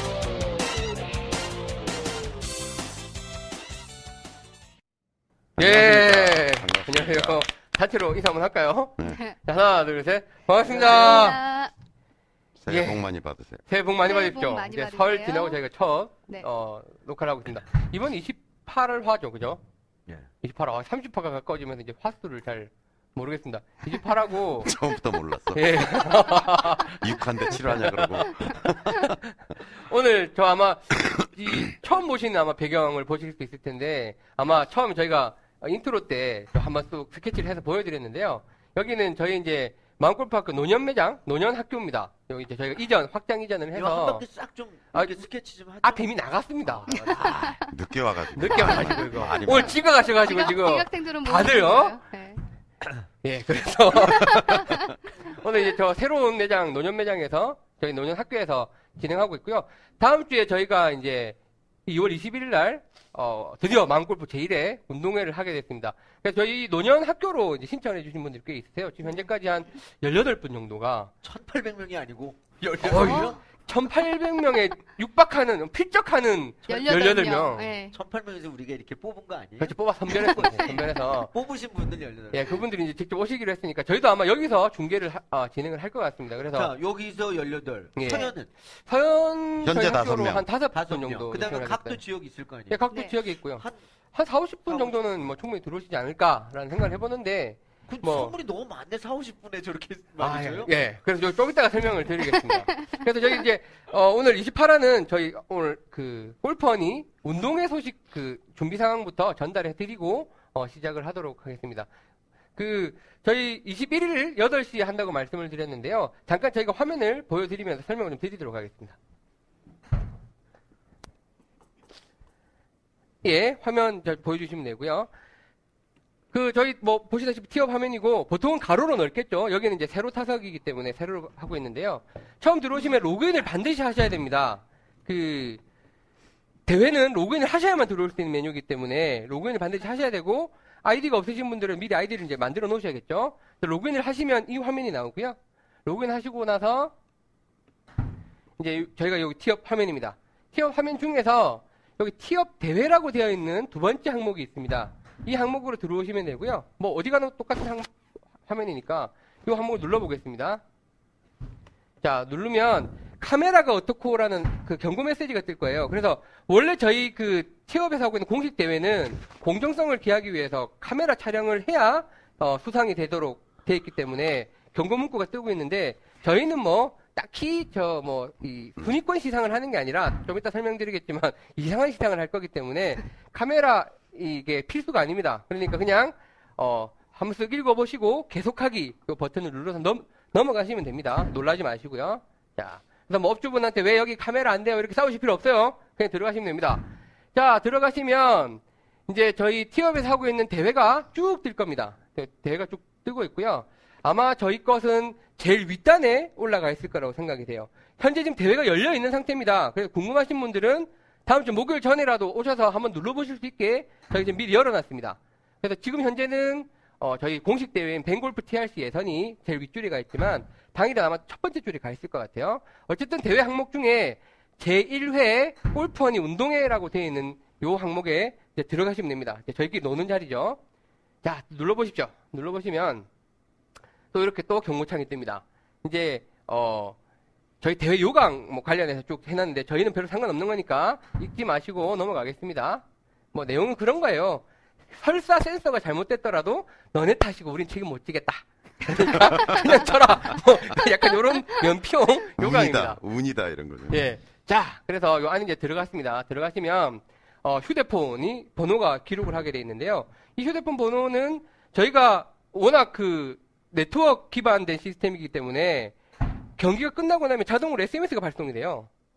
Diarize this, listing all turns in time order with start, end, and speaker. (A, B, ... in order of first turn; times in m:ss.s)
0:05.6-0:07.4 A
0:05.6-0:11.4 B
0:09.0-0:09.4 C
0:10.7-0:11.7 C
0:10.9-0:11.3 D
0:12.6-0:13.6 A
0:12.7-0:13.0 B
0:13.7-0:19.6 B
0:14.0-0:15.6 C
0:20.4-0:24.8 B
0:24.6-0:29.2 A
0:25.6-0:29.2 B
0:29.8-0:44.2 B
0:43.7-0:47.6 D
0:44.9-0:45.2 B
0:45.8-0:47.6 B
0:47.7-0:49.8 A
0:48.4-0:52.0 B
0:48.6-0:49.4 D
0:50.0-0:52.4 C
0:53.2-1:11.1 B
0:54.0-0:54.6 C
1:11.2-1:13.4 D
1:12.8-1:17.7 B
1:12.9-1:13.3 C
1:16.7-1:18.0 C
1:17.9-1:22.6 D
1:19.6-1:21.3 B
1:22.3-1:26.7 B
1:26.5-1:28.5 D
1:28.0-1:28.3 B
1:28.9-1:32.0 B
1:29.6-1:30.5 A
1:30.7-1:32.8 D
1:32.7-1:38.4 B
1:34.7-1:35.0 D
1:37.9-1:40.7 D
1:40.2-1:51.9 B
1:52.6-1:59.0 B
2:03.2-2:05.1 B
2:06.3-2:15.6 B
2:16.7-2:26.9 B
2:28.6-2:37.9 B
2:38.4-2:40.6 B
2:42.0-3:50.6 B
3:51.2-3:53.1 B
3:54.1-3:57.0 B
3:57.6-4:13.0 B
4:09.1-4:09.9 A
4:12.4-4:14.0 A
4:13.9-4:26.0 B
4:26.6-4:28.9 B